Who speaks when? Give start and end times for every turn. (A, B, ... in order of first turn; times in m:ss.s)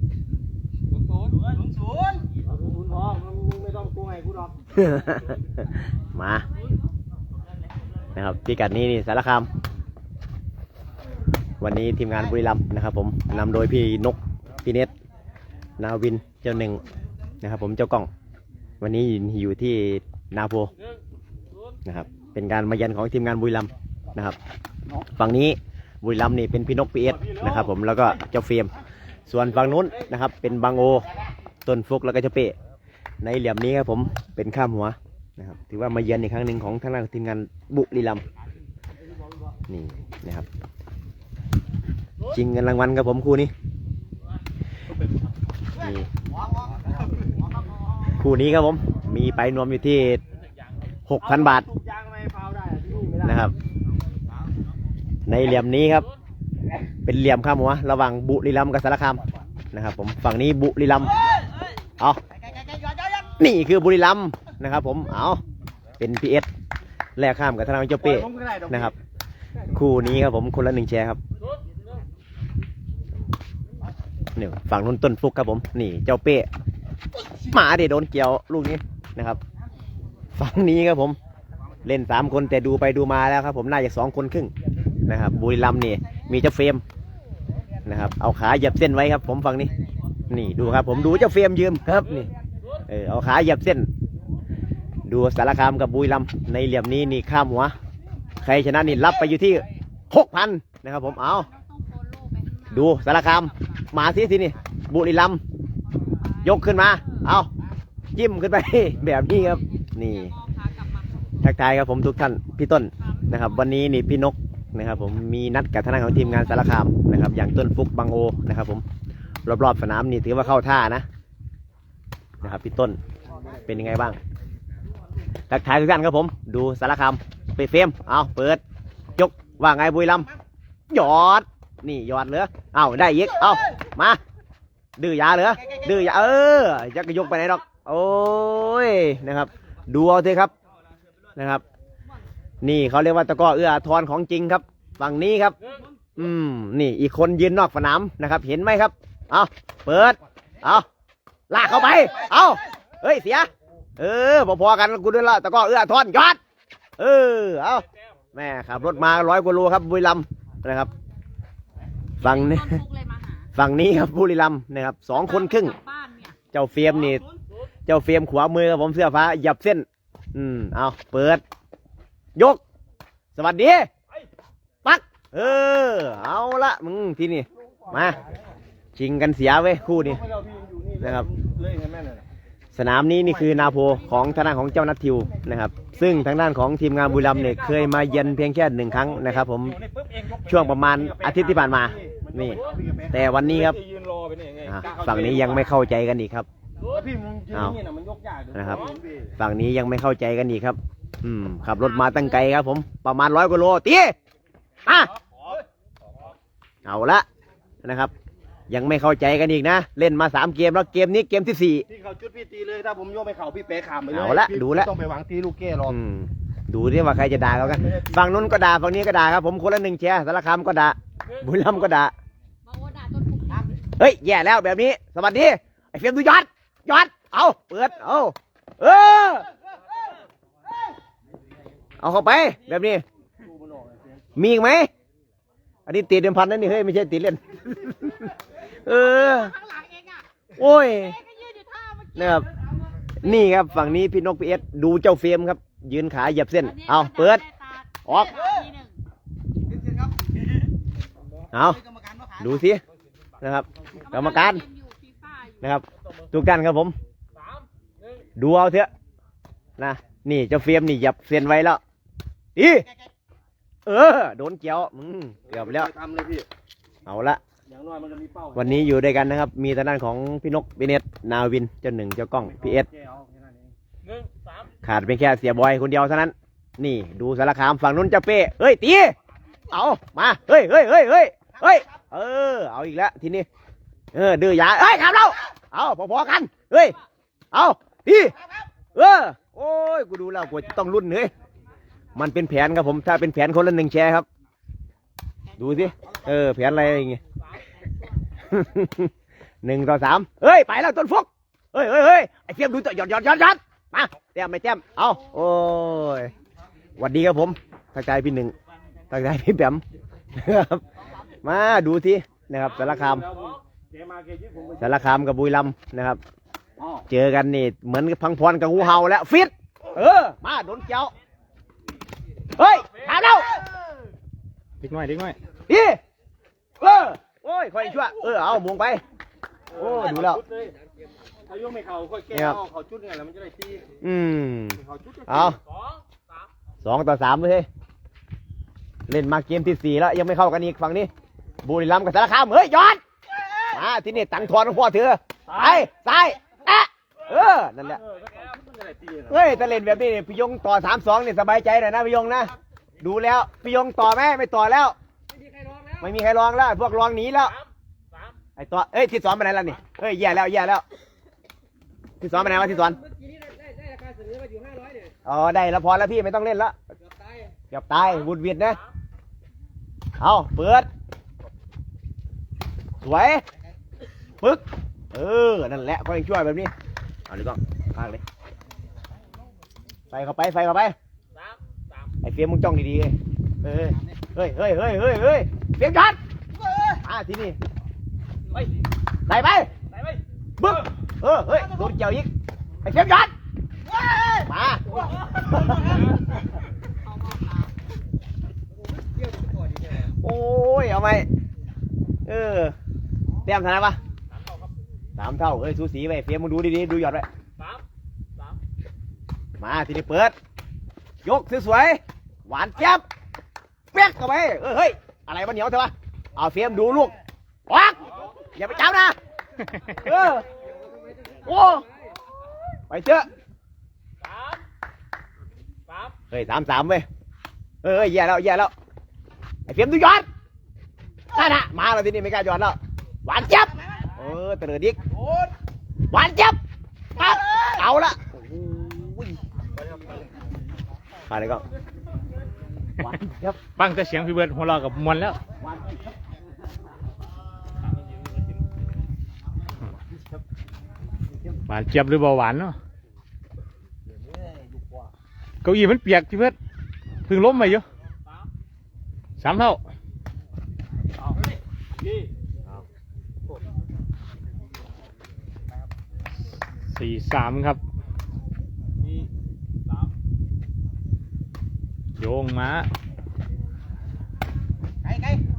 0:02.4-0:04.6 A
0:04.8-0:06.5 B
0:08.2-0:09.5 B
0:11.6-0:14.9 B
0:15.8-0:16.8 B
0:17.4-0:18.1 B
0:18.8-0:20.7 B
0:21.8-0:24.4 B
0:25.0-0:28.7 B
0:27.1-0:27.7 A
0:29.3-0:31.2 B
0:31.7-0:32.6 B
0:33.2-0:38.2 B
0:39.7-0:40.5 B
0:42.3-0:43.5 B
0:45.7-0:46.1 B
0:48.1-0:50.2 B
0:51.1-0:51.7 B
0:51.2-0:53.5 A
0:53.2-0:53.5 B
0:55.3-0:56.1 B
0:57.0-1:01.2 B
1:03.1-1:05.4 B
1:06.0-1:06.5 B
1:07.2-1:08.9 B
1:08.0-1:08.9 A
1:09.7-1:11.2 B
1:14.4-1:16.5 B
1:17.5-1:19.4 B
1:20.4-1:21.2 B
1:21.8-1:24.5 B
1:25.1-1:26.8 B
1:27.8-1:29.7 B
1:30.3-1:32.3 B
1:32.9-1:33.9 B
1:35.1-1:37.8 B
1:38.4-1:41.5 B
1:41.3-1:44.0 C
1:42.7-1:45.4 B
1:45.8-1:47.2 C
1:46.4-1:47.5 B
1:48.2-1:50.3 B
1:49.2-1:51.5 C
1:51.4-1:58.8 B
1:53.0-1:53.8 C
1:56.1-1:56.8 C
1:59.5-2:01.0 B
2:02.4-2:03.0 B
2:03.7-2:04.2 B
2:05.5-2:08.6 B
2:09.2-2:10.3 B
2:10.9-2:14.2 B
2:15.0-2:20.5 B
2:21.4-2:21.6 B
2:22.6-2:25.6 B
2:26.2-2:30.9 B
2:31.5-2:36.4 B
2:37.0-2:40.9 B
2:42.2-2:43.5 C
2:42.2-2:42.8 B
2:43.6-2:45.8 B
2:45.2-2:46.4 C
2:46.5-2:47.2 B
2:47.9-2:51.4 B
2:52.4-2:52.6 B
2:53.4-2:53.9 B
2:54.8-2:58.2 B
2:57.9-2:58.2 A
2:59.0-3:00.2 B
2:59.9-3:02.2 A
3:01.0-3:01.3 B
3:02.7-3:09.8 B
3:09.8-3:15.7 A
3:10.4-3:13.8 B
3:14.6-3:16.5 B
3:16.8-3:19.3 A
3:17.5-3:17.8 B
3:18.5-3:18.9 B
3:19.4-3:24.1 B
3:21.8-3:22.5 C
3:24.8-3:25.1 B
3:26.8-3:27.3 B
3:27.8-3:28.1 B
3:28.7-3:31.8 B
3:31.9-3:35.9 A
3:34.1-3:34.9 B
3:35.9-3:42.1 B
3:37.7-3:38.1 A
3:42.6-3:43.8 C
3:44.0-3:49.5 B
3:52.0-3:53.0 B
3:53.4-3:54.3 A
3:54.4-3:54.9 B
3:55.9-3:58.3 B
3:58.8-3:59.6 B
3:58.9-4:00.3 C
4:00.6-4:01.2 B
4:00.9-4:02.4 C
4:02.2-4:02.5 B
4:03.2-4:07.4 B
4:06.6-4:09.0 C
4:08.1-4:08.4 B
4:11.5-4:12.8 B
4:13.4-4:14.6 B
4:14.0-4:15.7 C
4:15.6-4:17.0 B
4:18.4-4:18.9 B
4:19.8-4:21.8 B
4:22.6-4:22.9 B
4:23.9-4:25.9 B
4:25.5-4:26.5 A
4:27.1-4:27.4 B
4:27.7-4:28.8 A
4:28.6-4:32.9 B
4:32.4-4:33.8 A
4:34.8-4:39.2 B
4:39.7-4:43.5 B
4:44.1-4:47.0 B
4:47.5-4:48.4 B
4:48.9-4:51.3 B
4:52.2-4:54.3 B
4:55.6-4:57.2 B
4:57.6-4:58.2 C
4:58.5-4:59.1 B
4:59.6-5:06.3 B
5:07.0-5:08.6 B
5:09.1-5:09.8 B
5:10.4-5:10.8 B
5:11.4-5:13.3 B
5:12.8-5:15.0 A
5:14.8-5:16.2 B
5:16.8-5:17.0 A
5:17.1-5:21.1 B
5:22.6-5:23.5 B
5:24.8-5:25.4 D
5:25.7-5:26.0 B
5:26.8-5:29.0 B
5:29.7-5:30.8 A
5:29.7-5:30.4 B
5:31.5-5:33.9 A
5:32.3-5:32.6 B
5:34.0-5:35.6 B
5:34.8-5:35.6 A
5:36.8-5:37.7 B
5:39.1-5:41.1 B
5:41.6-5:43.0 B
5:43.4-5:43.7 A
5:43.7-5:48.0 B
5:45.5-5:45.9 A
5:48.0-5:49.5 A
5:49.3-5:55.0 B
5:55.4-5:56.0 A
5:56.0-5:57.6 B
5:58.6-6:00.8 B
6:02.2-6:03.0 B
6:04.1-6:04.9 A
6:05.2-6:06.8 B
6:07.7-6:08.8 B
6:10.2-6:10.9 B
6:13.0-6:13.4 B
6:14.4-6:16.7 B
6:17.3-6:18.2 B
6:20.1-6:21.0 B
6:22.2-6:26.2 B
6:27.0-6:27.6 B
6:29.3-6:29.7 B
6:30.6-6:32.3 B
6:32.8-6:33.3 B
6:34.3-6:36.0 B
6:35.8-6:36.1 C
6:36.9-6:37.7 C
6:40.0-6:41.3 B
6:42.3-6:42.8 B
6:43.4-6:44.0 B
6:45.2-6:47.3 B
6:49.6-6:50.3 B
6:51.2-6:53.0 B
6:53.9-6:57.2 B
6:57.7-6:59.2 B
6:59.6-7:00.1 D
6:59.9-7:00.5 B
7:01.4-7:01.9 B
7:02.9-7:03.3 B
7:06.3-7:07.1 B
7:07.8-7:08.7 B
7:09.7-7:10.3 B
7:11.3-7:15.0 B
7:16.1-7:16.6 B
7:17.1-7:19.4 B
7:21.3-7:21.6 B
7:23.0-7:23.6 B
7:23.8-7:25.4 D
7:31.7-7:32.8 D
7:35.6-7:36.6 D
7:37.3-7:37.8 D
7:39.4-7:39.8 D
7:42.0-7:42.3 A
7:46.9-7:47.8 D
7:52.2-7:52.9 D